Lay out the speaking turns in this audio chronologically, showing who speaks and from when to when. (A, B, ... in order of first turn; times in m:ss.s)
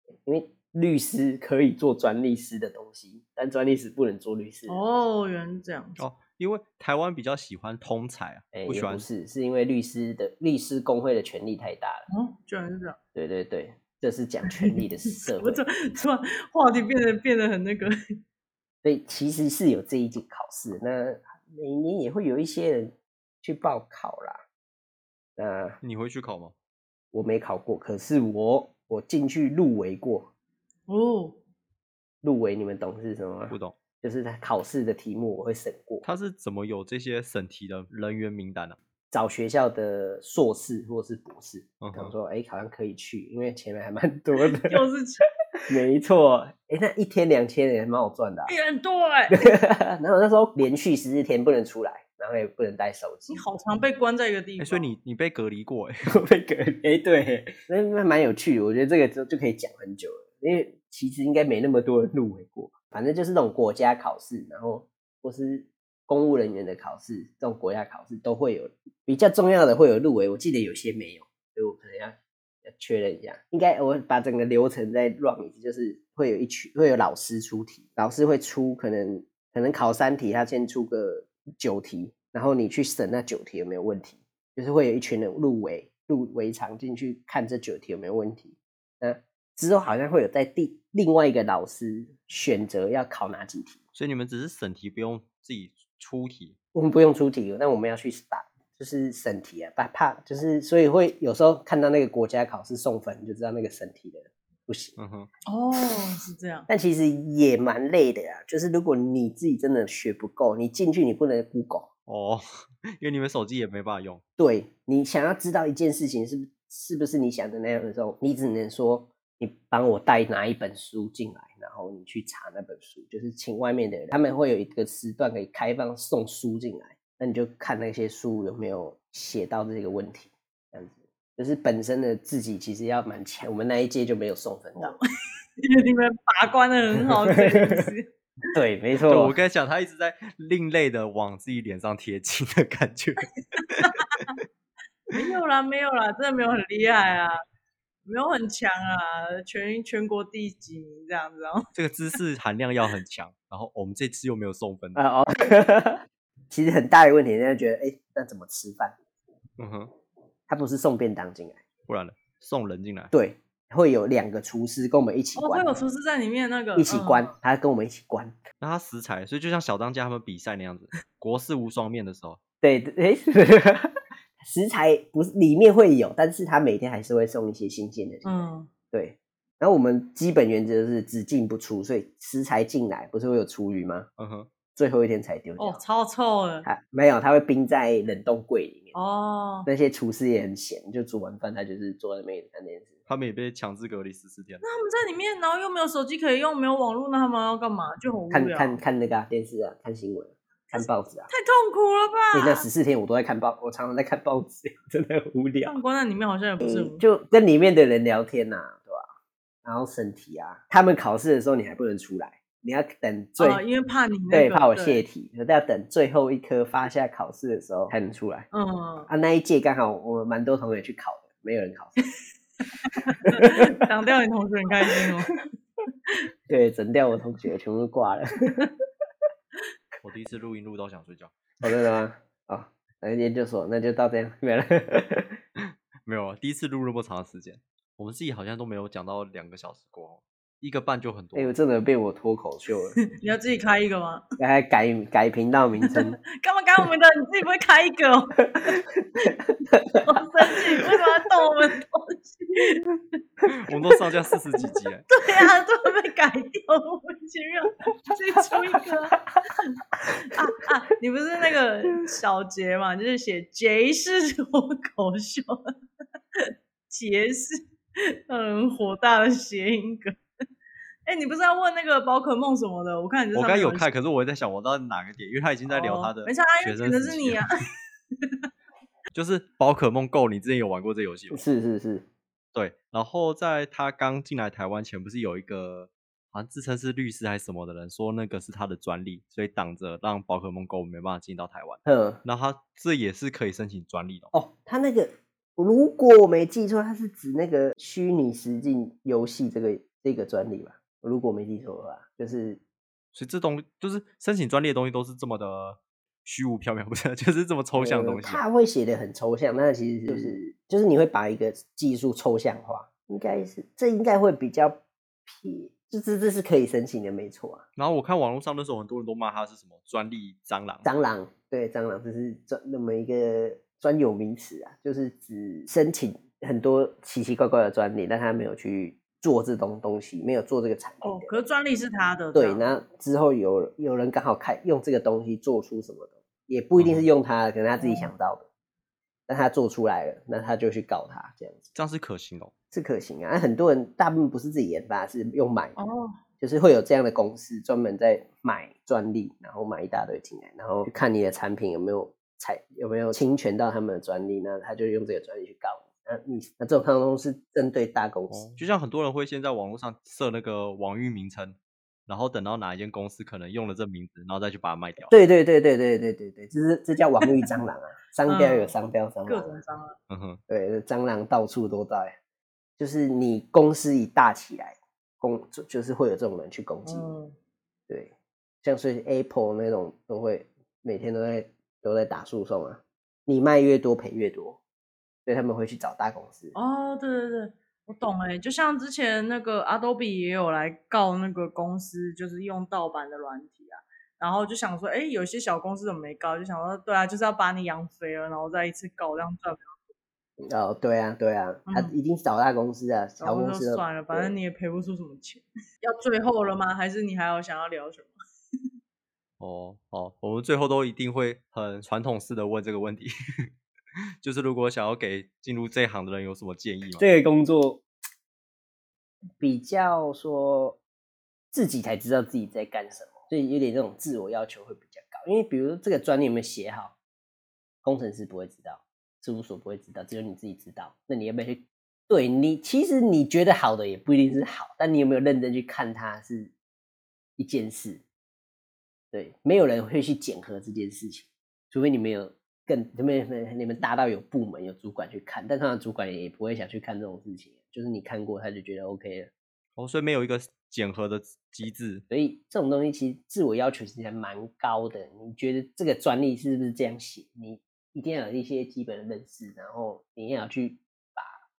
0:00.2-0:04.8 A
0:04.7-0:06.0 B
0:06.0-0:09.1 C
0:08.5-0:12.0 A
0:12.1-0:13.0 B
0:13.2-0:15.6 A
0:14.5-0:17.9 B
0:18.8-0:24.4 A
0:25.4-0:25.8 A
0:25.8-0:26.5 C
0:27.1-0:30.3 A
0:30.9-0:31.4 B
0:32.2-0:36.0 A
0:33.5-0:33.8 C
0:36.0-0:38.8 C
0:39.1-0:44.8 A
0:41.8-0:42.1 C
0:44.6-0:45.2 B
0:45.7-0:48.5 A
0:48.5-0:49.4 B
0:49.3-0:53.4 A
0:53.3-0:54.9 B
0:54.6-0:56.0 C
0:56.1-1:33.8 A
1:34.0-1:36.6 C
1:36.7-1:45.0 A
1:45.0-1:45.3 C
1:45.5-1:46.7 B
1:46.7-1:51.9 A
1:52.1-1:54.2 C
1:54.4-2:15.0 A
2:15.6-2:18.1 B
2:17.0-2:17.9 A
2:18.5-2:19.4 A
2:19.1-2:23.9 C
2:23.6-2:24.4 B
2:25.1-2:27.4 B
2:28.1-2:31.7 B
2:31.8-2:35.0 C
2:35.0-2:39.0 A
2:39.6-2:39.9 C
2:40.5-2:41.6 A
2:41.9-2:43.1 C
2:43.1-2:45.7 A
2:45.4-2:47.3 B
2:46.8-2:48.4 A
2:48.6-2:52.4 C
2:52.6-3:04.1 A
2:58.2-2:58.7 B
3:04.2-3:04.5 C
3:04.8-3:05.8 A
3:05.6-3:06.7 B
3:06.6-3:09.0 A
3:08.9-3:09.7 B
3:09.7-3:13.0 A
3:13.1-3:14.6 C
3:14.6-3:18.8 B
3:18.3-3:21.3 A
3:20.7-3:22.7 B
3:22.3-3:25.8 A
3:25.6-3:27.0 B
3:26.6-3:29.1 A
3:29.6-3:33.6 A
3:33.4-3:35.0 B
3:34.3-3:38.5 A
3:38.5-3:39.1 B
3:39.1-3:42.0 A
3:42.8-3:45.3 B
3:43.3-3:43.7 A
3:46.5-3:48.7 A
3:50.0-3:51.4 C
3:51.6-3:55.4 A
3:55.6-4:01.6 C
4:01.4-4:03.0 A
4:03.1-4:04.2 B
4:04.4-4:06.2 A
4:05.9-4:09.3 B
4:09.7-4:10.0 A
4:10.0-4:12.9 B
4:13.5-4:15.1 C
4:15.1-4:25.6 B
4:26.4-4:27.6 B
4:28.3-4:30.2 B
4:31.1-4:33.9 B
4:33.3-4:37.4 C
4:35.7-4:37.5 B
4:39.1-4:41.4 C
4:41.3-4:42.1 A
4:42.5-4:54.3 C
4:51.9-4:52.2 A
4:54.3-5:02.6 A
5:03.1-5:08.4 C
5:07.8-5:17.6 A
5:10.1-5:10.4 C
5:17.8-5:20.9 C
5:20.8-5:31.4 A
5:31.0-5:32.7 B
5:32.3-5:38.5 A
5:36.8-5:37.1 C
5:37.8-5:38.1 B
5:39.3-5:41.7 A
5:41.8-5:42.5 C
5:42.7-5:45.8 A
5:45.8-5:46.2 B
5:46.4-5:58.4 A
5:58.3-6:01.6 C
6:02.1-6:05.1 C
6:05.1-6:09.6 A
6:08.3-6:08.7 B
6:09.3-6:10.0 B
6:10.1-6:10.4 C
6:10.5-6:12.2 A
6:12.8-6:17.1 A
6:16.8-6:17.4 B
6:17.9-6:24.6 A
6:25.3-6:26.6 A
6:26.5-6:39.8 B
6:40.4-6:44.3 A
6:41.7-6:41.9 B
6:43.2-6:48.1 B
6:49.4-6:53.1 C
6:54.2-6:57.0 C
6:57.0-6:57.8 A
6:59.4-7:00.8 A
7:01.5-7:07.0 A
7:07.8-7:16.5 A
7:17.4-7:18.0 A
7:19.1-7:29.3 A
7:29.8-7:32.0 C
7:32.1-7:41.4 A